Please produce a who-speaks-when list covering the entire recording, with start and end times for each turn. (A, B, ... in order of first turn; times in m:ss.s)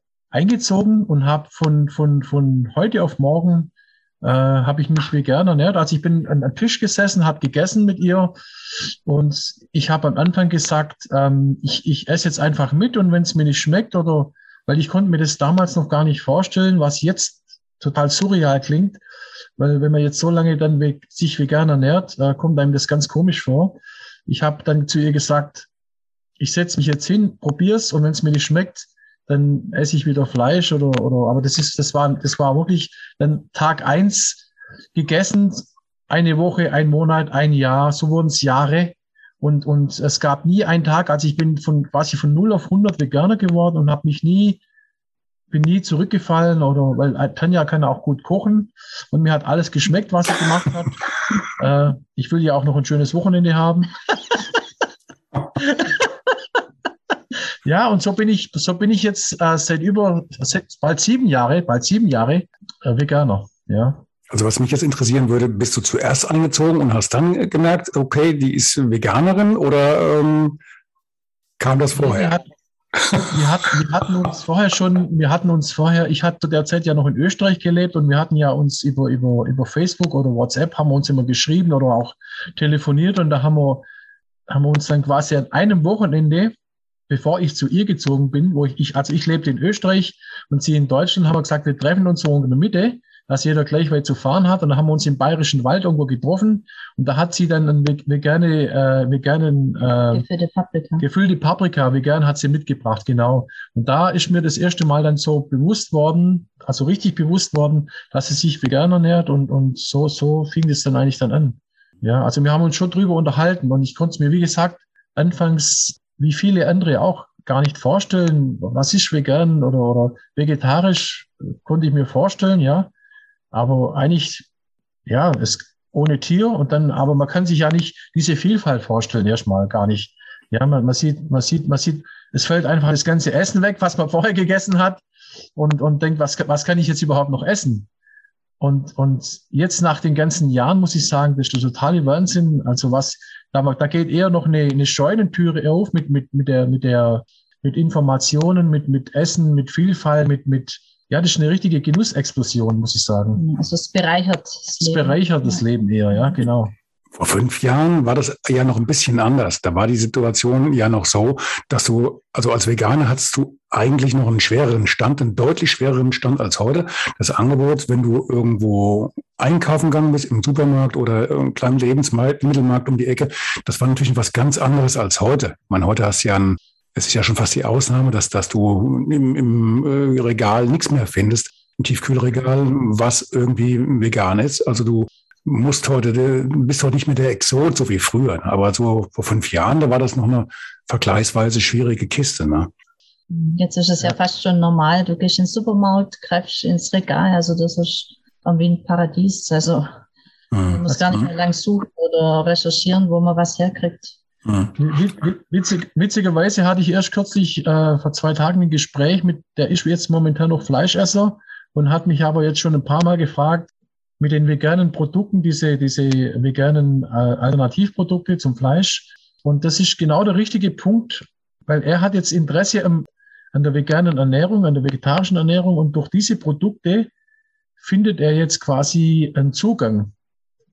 0:00.3-0:19.0 A
0:19.6-0:25.7 A
0:26.4-0:44.6 A
0:45.5-0:51.0 A
0:51.5-0:54.4 A
0:55.6-0:56.1 A
0:57.6-1:04.0 A
1:04.3-1:10.6 B
1:11.6-1:12.3 B
1:12.0-1:12.5 A
1:13.0-1:13.4 B
1:13.3-1:23.8 A
1:24.5-1:26.5 A
1:27.1-1:40.2 A
1:40.1-1:41.0 C
1:41.0-2:02.9 A
2:03.5-2:04.5 A
2:05.0-2:15.0 A
2:15.5-2:17.9 A
2:18.6-2:33.4 A
2:33.4-2:35.6 C
2:34.8-2:36.7 A
2:36.1-2:36.4 C
2:37.1-3:12.7 B
3:13.3-3:20.0 C
3:20.5-3:21.3 B
3:20.6-3:24.2 C
3:24.4-3:24.7 B
3:24.8-3:47.1 A
3:47.8-3:50.1 A